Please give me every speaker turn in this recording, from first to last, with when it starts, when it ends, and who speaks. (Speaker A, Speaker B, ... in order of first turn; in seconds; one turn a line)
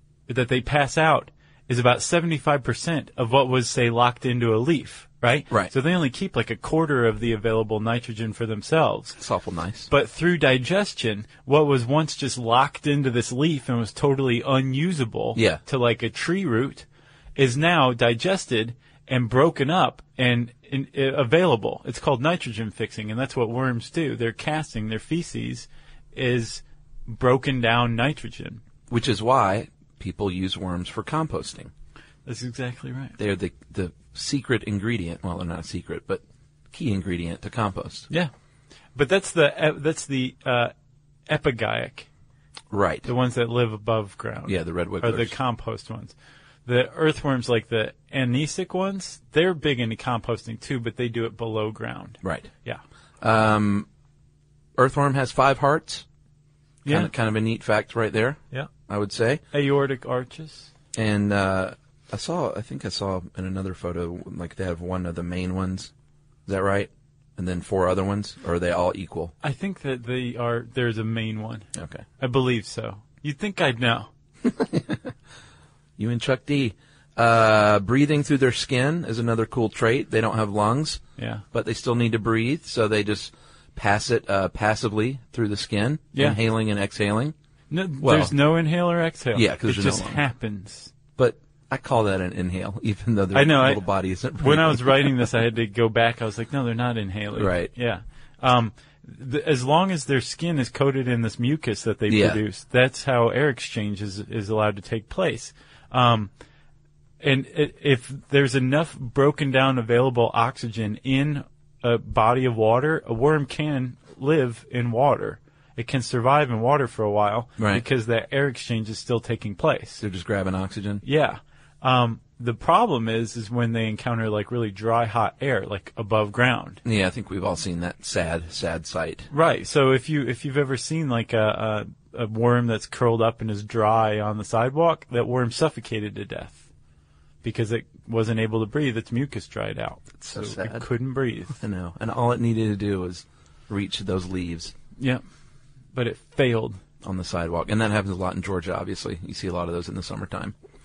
Speaker A: 0.3-9.2
Speaker B: 9.2-9.9
Speaker A: 9.9-28.6
Speaker B: 15.4-15.6
Speaker B: 28.9-31.7
Speaker A: 32.3-33.2
Speaker B: 33.2-36.2
Speaker B: 36.7-38.1
Speaker A: 39.0-40.7
Speaker A: 41.3-42.1
Speaker B: 42.7-43.1
Speaker A: 43.0-46.1
Speaker B: 44.5-45.3
Speaker A: 46.7-52.8
Speaker B: 52.2-52.5
Speaker B: 53.2-53.9
Speaker B: 54.8-56.0
Speaker A: 56.9-57.1
Speaker B: 56.9-59.4
Speaker A: 59.5-60.7
Speaker B: 61.0-65.9
Speaker B: 66.5-69.3
Speaker A: 69.4-71.7
Speaker B: 71.8-72.0
Speaker A: 72.2-74.1
Speaker B: 74.5-75.1
Speaker B: 76.0-87.3
Speaker A: 81.2-81.4
Speaker A: 86.1-86.4
Speaker A: 87.7-90.9
Speaker B: 88.0-88.3
Speaker B: 89.3-90.2
Speaker B: 91.2-95.3
Speaker A: 93.3-93.8
Speaker A: 94.4-106.3
Speaker B: 97.4-97.7
Speaker B: 102.1-102.4
Speaker A: 107.2-120.0
Speaker B: 117.6-117.8
Speaker B: 120.0-121.0
Speaker A: 121.0-126.8
Speaker B: 126.8-129.3
Speaker A: 129.3-136.7
Speaker A: 137.4-141.6
Speaker B: 140.2-140.9
Speaker B: 141.6-144.7
Speaker A: 145.9-146.8
Speaker B: 147.0-150.5